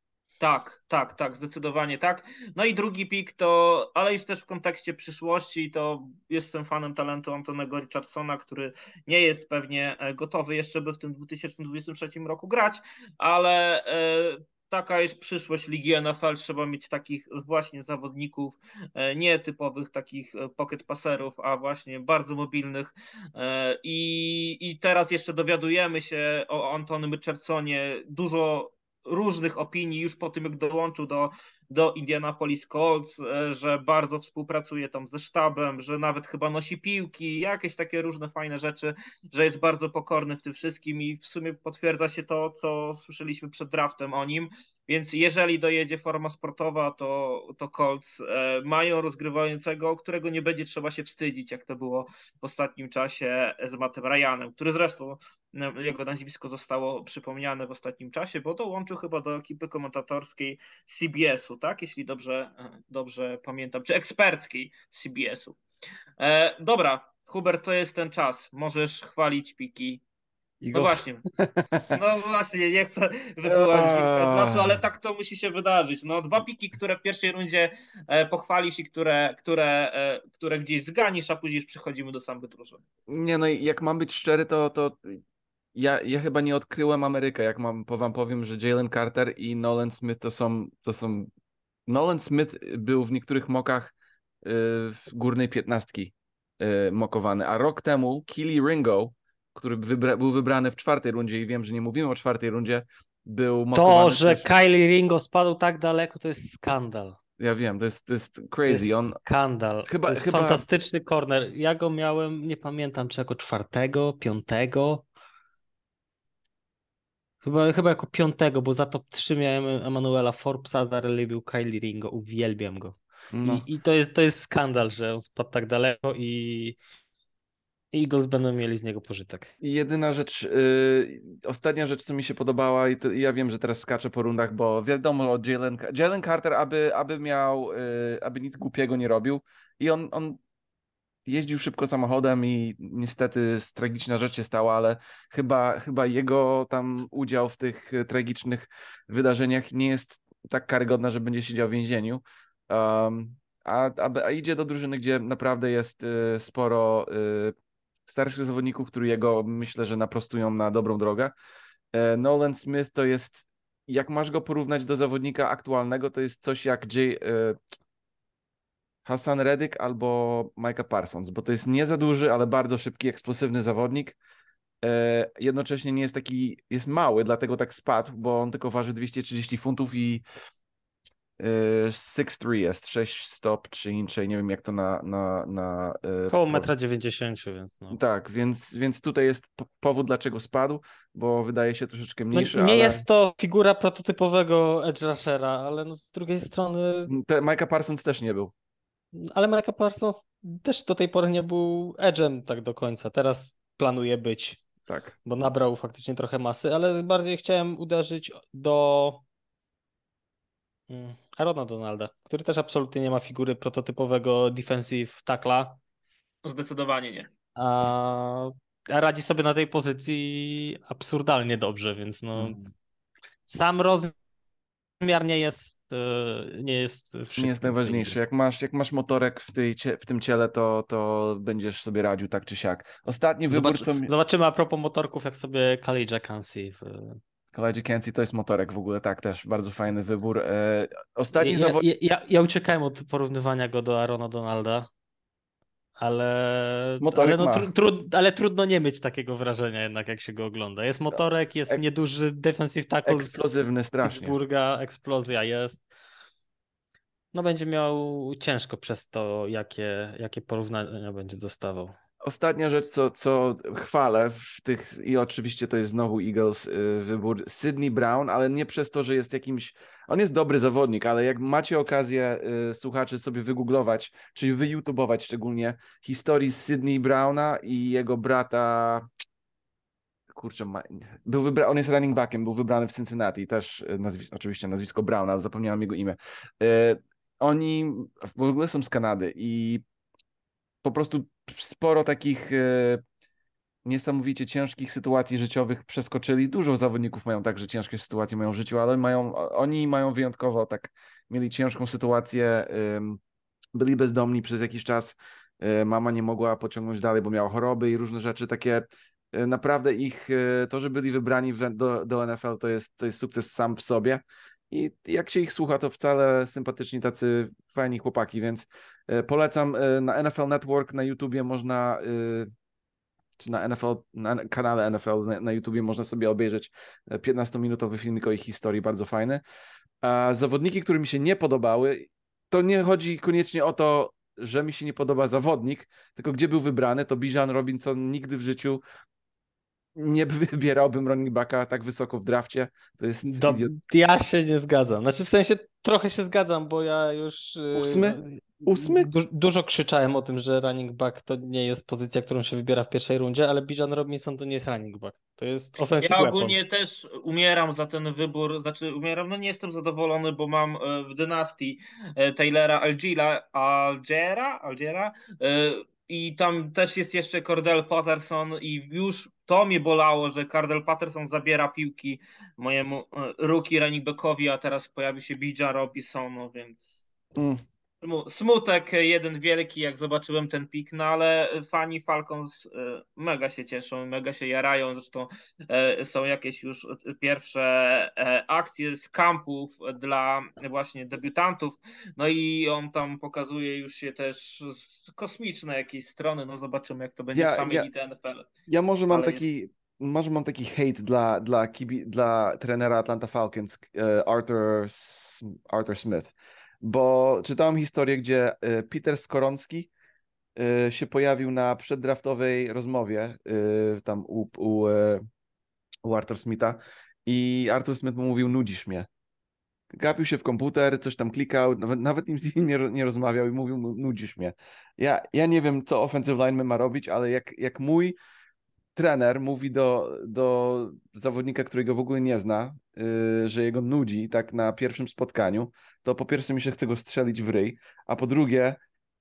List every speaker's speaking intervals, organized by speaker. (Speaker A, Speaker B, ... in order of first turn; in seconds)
Speaker A: 0.4-65.6, 66.2-70.0, 70.7-71.2, 71.9-82.8, 216.4-217.3, 356.0-376.8, 378.0-398.5, 399.1-399.5
Speaker B: 70.6-71.9, 73.5-74.8, 83.1-85.2, 85.7-91.3, 91.9-104.5, 107.4-109.2, 109.9-110.6, 123.3-123.7, 129.6-140.4, 141.2-157.5, 158.1-161.3, 161.9-167.6, 169.0-174.2, 174.8-180.2, 181.4-186.7, 187.9-193.0, 197.1-198.5, 204.9-205.1, 222.3-222.7, 227.3-234.1, 237.5-241.8, 247.0-247.7, 251.1-251.8, 253.0-254.3, 262.2-279.1, 280.3-289.8, 290.8-293.0, 293.8-303.2, 303.7-322.5, 323.4-329.4, 330.0-338.8, 339.9-343.7, 347.7-349.1, 377.4-377.6, 397.3-397.9, 398.7-409.9, 410.6-415.2, 416.0-419.1, 419.9-428.1, 428.9-438.8
Speaker C: 103.7-107.2, 108.7-115.0, 117.4-126.8, 127.9-129.5, 186.3-188.0, 192.3-197.1, 199.2-204.6, 205.2-209.2, 210.9-215.8, 217.6-222.6, 223.4-224.1, 225.0-228.2, 233.5-237.2, 241.3-244.9, 246.0-253.5, 254.0-255.8, 257.3-261.9, 343.4-356.6